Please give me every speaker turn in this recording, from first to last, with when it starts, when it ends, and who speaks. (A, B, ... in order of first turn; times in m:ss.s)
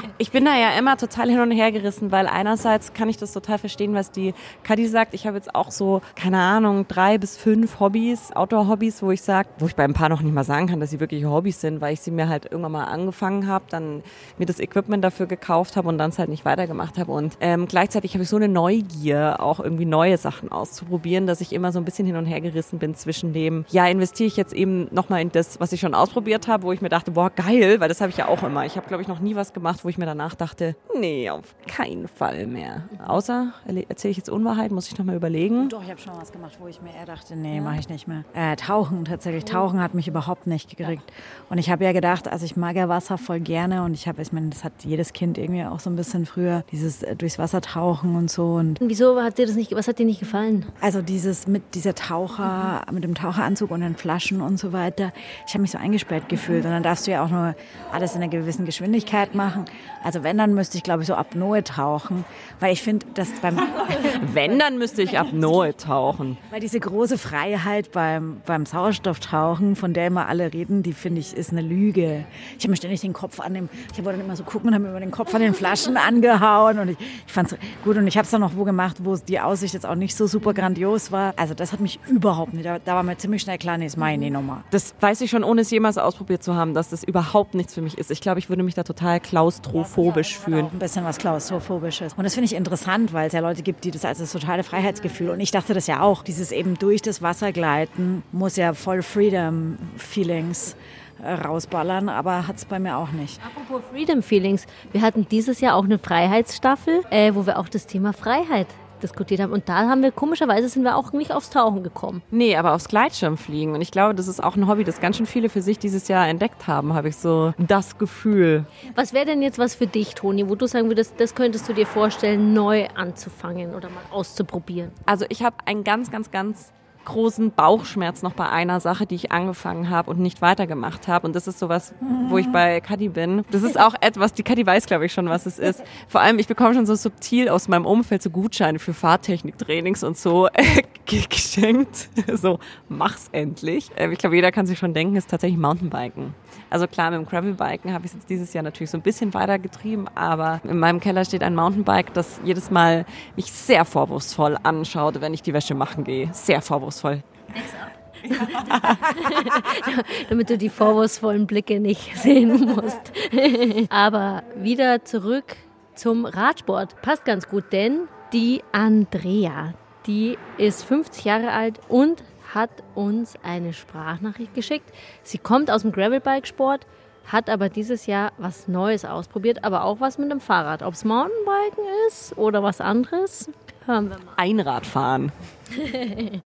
0:00.2-0:35.7 A
0:35.6-0:48.8 B
0:37.5-0:37.8 C
0:48.8-0:50.7 C
0:50.8-1:04.6 B
1:04.1-1:06.4 A
1:06.5-1:24.7 B
1:24.7-1:30.7 A
1:29.7-1:43.4 B
1:43.4-1:52.2 C
1:52.3-1:58.7 A
1:58.9-2:05.0 C
2:05.1-2:37.2 A
2:12.0-2:12.6 B
2:15.6-2:15.9 B
2:37.6-3:04.4 C
2:38.4-2:39.2 A
3:04.4-3:05.3 A
3:05.8-3:06.4 C